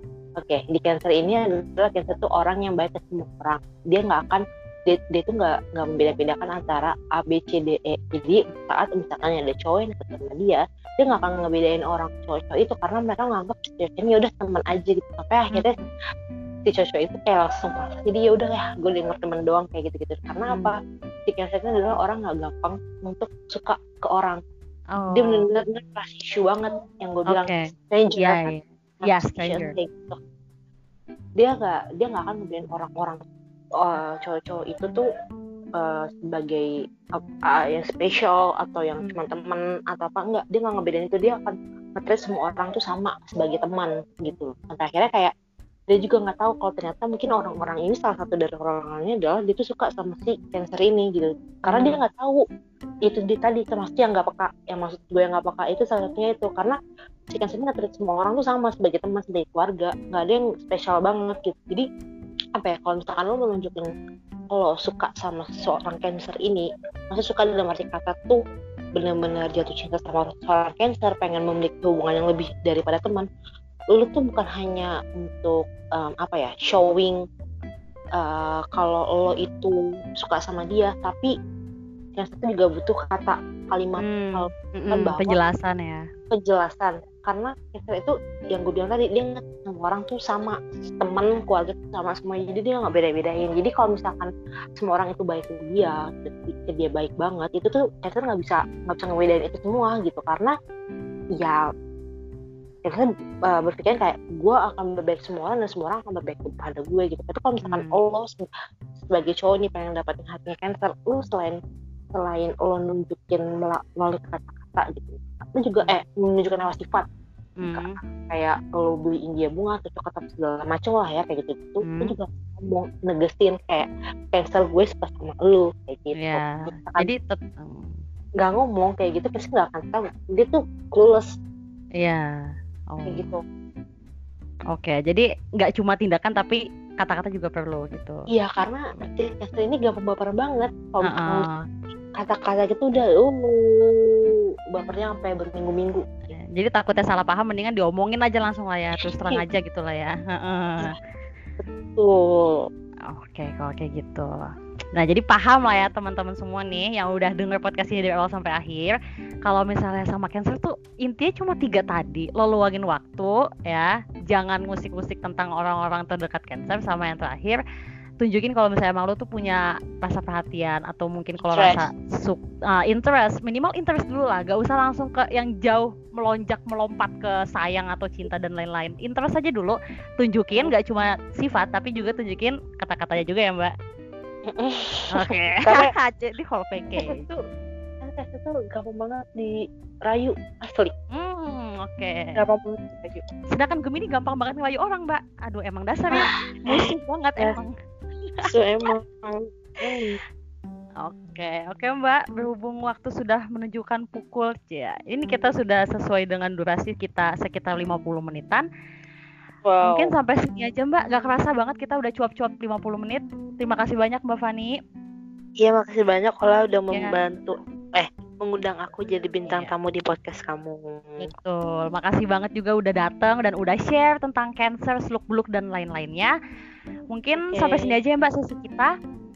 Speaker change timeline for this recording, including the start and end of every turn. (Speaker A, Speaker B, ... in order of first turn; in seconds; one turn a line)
Speaker A: 0.4-15.7
Speaker B: 15.5-15.8
Speaker A: 16.6-20.8
Speaker A: 21.3-24.4
Speaker B: 24.9-25.5
Speaker A: 25.1-28.5
Speaker B: 27.3-29.8
Speaker A: 29.0-30.2
Speaker A: 31.4-33.2
Speaker A: 33.8-35.0
Speaker A: 35.8-45.3
Speaker A: 45.9-52.4
Speaker B: 51.7-52.0
Speaker A: 53.0-56.8
Speaker A: 57.3-61.9
Speaker A: 62.5-63.9
Speaker A: 64.5-68.4
Speaker A: 69.0-73.3
Speaker A: 73.9-77.2
Speaker A: 78.2-81.3
Speaker A: 82.2-85.4
Speaker B: 84.0-86.0
Speaker A: 86.3-100.5
Speaker A: 102.8-108.5
Speaker B: 107.6-108.0
Speaker A: 109.1-111.6
Speaker A: 112.1-117.0
Speaker B: 117.6-118.0
Speaker A: 117.7-127.1
Speaker B: 121.8-122.1
Speaker B: 126.2-128.0
Speaker A: 128.4-131.3
Speaker B: 132.0-132.3
Speaker B: 132.9-133.3
Speaker A: 133.1-133.4
Speaker B: 134.7-138.2
Speaker A: 138.3-141.5
Speaker B: 141.0-141.6
Speaker A: 142.2-144.2
Speaker A: 144.8-146.0
Speaker B: 146.3-150.9
Speaker A: 151.6-152.2
Speaker B: 153.1-154.3
Speaker B: 155.0-167.6
Speaker B: 168.2-183.7
Speaker A: 171.4-171.8
Speaker A: 184.5-185.9
Speaker B: 185.1-187.3
Speaker A: 187.0-187.4
Speaker A: 188.0-190.9
Speaker B: 191.1-192.4
Speaker A: 192.3-193.2
Speaker B: 193.5-197.7
Speaker A: 196.1-197.6
Speaker A: 198.4-200.2
Speaker B: 201.0-208.7
Speaker A: 209.6-210.1
Speaker B: 209.8-214.8
Speaker A: 215.6-221.3
Speaker B: 221.2-226.3
Speaker B: 227.1-228.9
Speaker A: 227.4-227.9